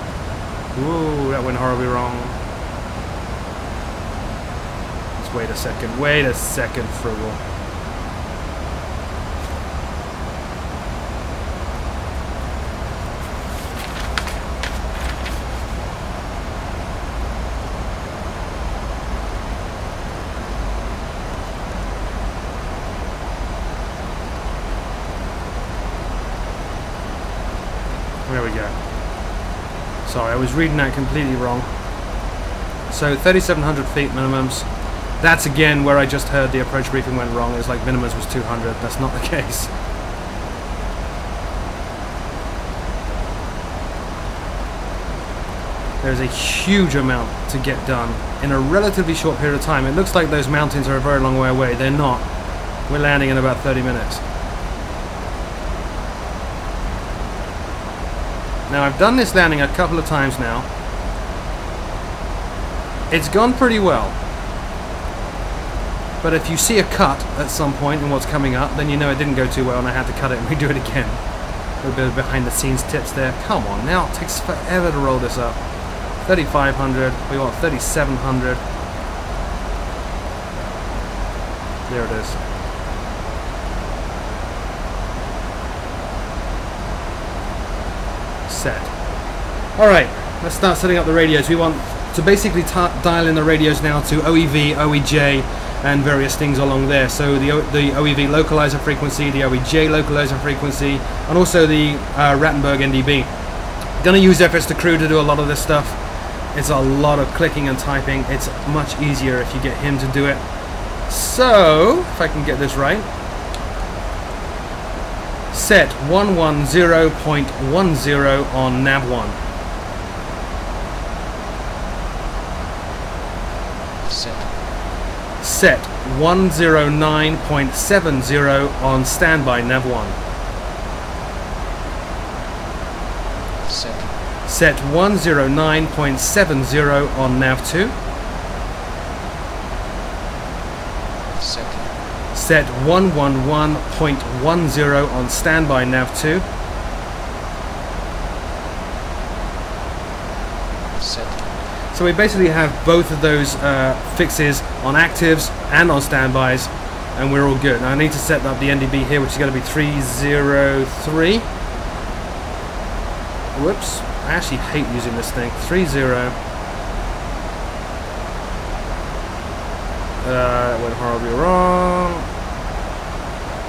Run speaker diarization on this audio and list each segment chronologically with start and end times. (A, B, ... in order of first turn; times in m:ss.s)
0:00.7-0:02.4 A
0:05.2-0:07.4 A
0:28.3-0:28.7 A
0:30.0-0:31.7 A
0:32.9-0:34.7 A
0:35.2-0:39.7 A
0:46.0-0:52.3 A
0:52.9-0:54.2 A
0:58.7-1:00.7 A
1:03.1-1:04.2 A
1:06.2-1:11.2 A
1:11.8-1:15.6 A
1:16.2-1:18.6 A
1:21.9-1:22.4 A
1:28.5-1:28.9 A
1:29.8-1:43.3 A
1:44.0-1:46.0 A
1:46.5-1:50.4 A
1:51.1-1:53.1 A
1:55.5-1:59.4 A
2:04.0-2:04.5 B
2:05.4-2:10.2 A
2:13.6-2:14.2 B
2:14.4-2:17.9 A
2:21.4-2:21.9 B
2:22.3-2:26.4 A
2:31.0-2:31.5 B
2:31.9-2:41.5 A
2:43.5-2:46.4 A
2:50.2-2:52.2 A